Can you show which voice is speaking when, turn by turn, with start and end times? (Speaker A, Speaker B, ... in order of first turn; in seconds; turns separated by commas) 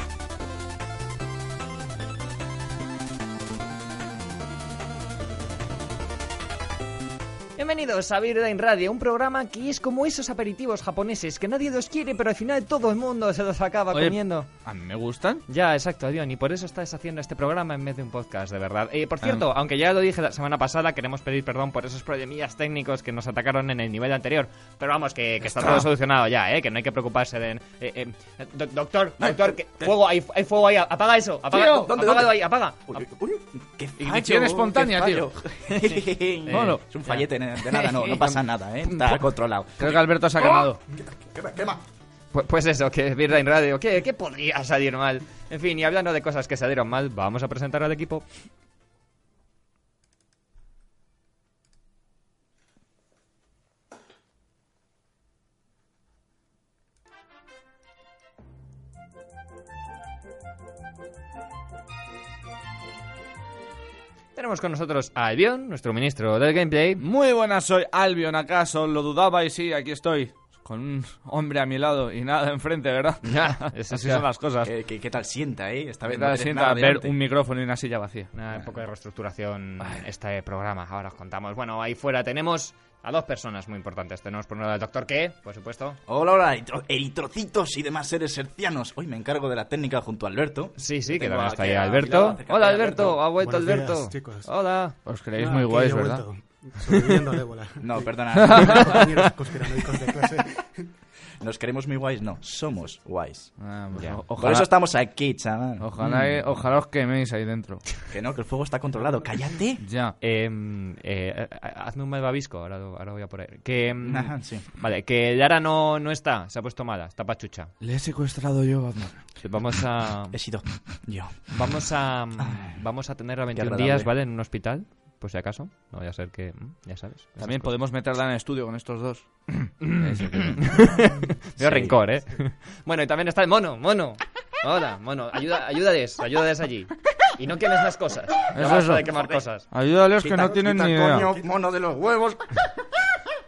Speaker A: 7.6-14.5, Speaker B: 13.9-15.4, Speaker A: 15.5-32.9, Speaker C: 25.6-25.8, Speaker C: 29.2-29.9, Speaker C: 31.5-41.8, Speaker B: 34.0-35.3, Speaker A: 35.8-38.2, Speaker B: 36.5-36.8, Speaker B: 38.0-38.3, Speaker B: 39.8-40.8, Speaker A: 42.3-48.2, Speaker A: 64.4-67.0, Speaker B: 67.0-74.7, Speaker A: 73.2-74.3, Speaker C: 74.6-77.1, Speaker B: 76.0-78.3, Speaker A: 78.3-86.0, Speaker C: 86.1-93.3, Speaker A: 90.8-95.0, Speaker D: 93.4-94.5, Speaker B: 95.1-96.2, Speaker D: 95.4-100.9, Speaker C: 97.8-99.0, Speaker B: 98.4-98.8, Speaker A: 98.8-99.3, Speaker C: 101.4-103.5, Speaker B: 103.6-104.7, Speaker A: 103.9-104.2, Speaker C: 104.4-106.4, Speaker B: 105.8-107.9, Speaker C: 108.1-109.8, Speaker B: 109.8-110.2, Speaker A: 110.2-117.7, Speaker C: 114.0-114.8, Speaker B: 117.8-119.3, Speaker A: 119.4-120.4, Speaker C: 120.3-121.5, Speaker A: 121.5-127.7, Speaker C: 122.4-122.8, Speaker C: 123.5-124.1, Speaker B: 127.4-130.9, Speaker A: 129.8-139.7, Speaker B: 131.6-131.9, Speaker B: 138.5-141.3, Speaker C: 140.2-142.8